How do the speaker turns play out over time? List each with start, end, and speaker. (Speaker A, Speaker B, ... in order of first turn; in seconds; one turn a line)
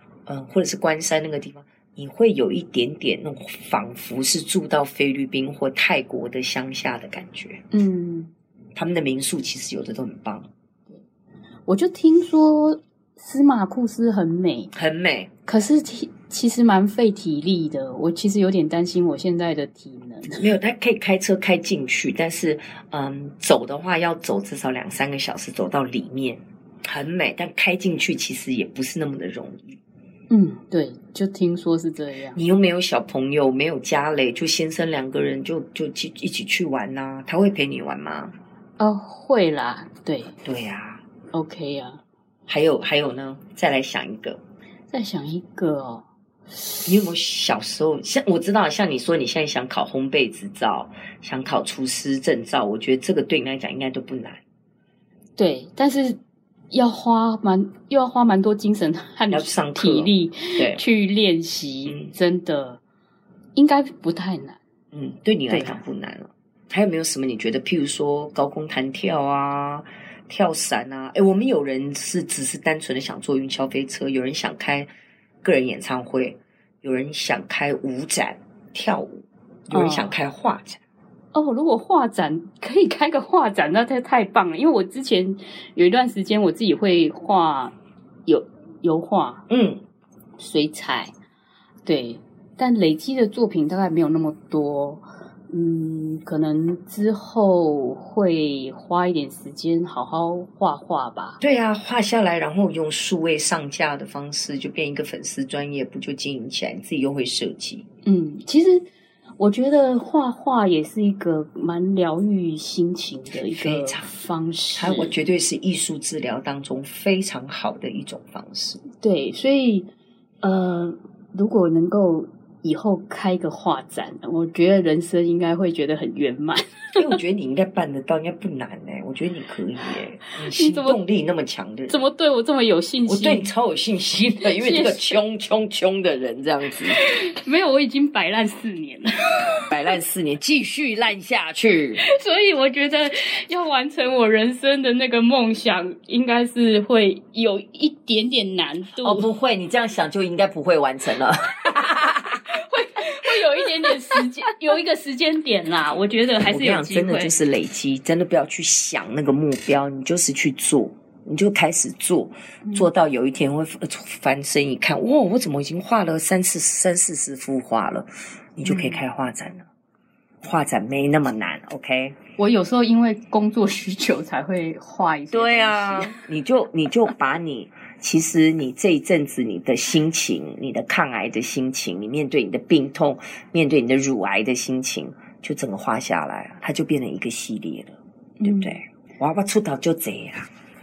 Speaker A: 0.3-7.6
Speaker B: 7.7-8.3
Speaker A: 8.8-10.5
Speaker B: 11.7-14.7
Speaker A: 14.7-15.3
Speaker B: 15.4-20.5
Speaker A: 20.4-29.8
Speaker B: 30.3-32.4
Speaker A: 32.3-38.3
Speaker B: 38.8-40.3
Speaker A: 40.4-41.0
Speaker B: 41.3-42.0
Speaker A: 42.5-44.4
Speaker B: 44.9-46.0
Speaker A: 46.9-54.4
Speaker B: 55.4-56.2
Speaker B: 56.7-62.8
Speaker A: 59.3-60.8
Speaker B: 63.5-64.6
Speaker A: 64.9-74.9
Speaker B: 65.5-65.8
Speaker A: 75.4-80.8
Speaker B: 79.7-80.1
Speaker B: 81.3-87.7
Speaker B: 88.2-89.4
Speaker A: 89.5-89.8
Speaker B: 90.4-91.1
Speaker B: 91.8-101.4
Speaker A: 101.4-107.8
Speaker B: 108.0-108.8
Speaker B: 109.4-115.2
Speaker A: 113.5-114.1
Speaker A: 114.8-118.8
Speaker B: 118.9-119.9
Speaker B: 120.4-127.0
Speaker A: 127.0-132.0
Speaker B: 130.4-131.0
Speaker B: 131.9-133.5
Speaker A: 133.1-137.0
Speaker B: 134.4-135.2
Speaker B: 136.9-139.7
Speaker A: 139.7-142.0
Speaker B: 142.0-149.3
Speaker A: 149.0-152.4
Speaker B: 152.5-157.4
Speaker A: 153.9-154.2
Speaker A: 156.4-169.7
Speaker B: 168.7-169.0
Speaker A: 170.4-172.1
Speaker B: 172.4-176.2
Speaker A: 175.3-190.5
Speaker B: 188.4-188.8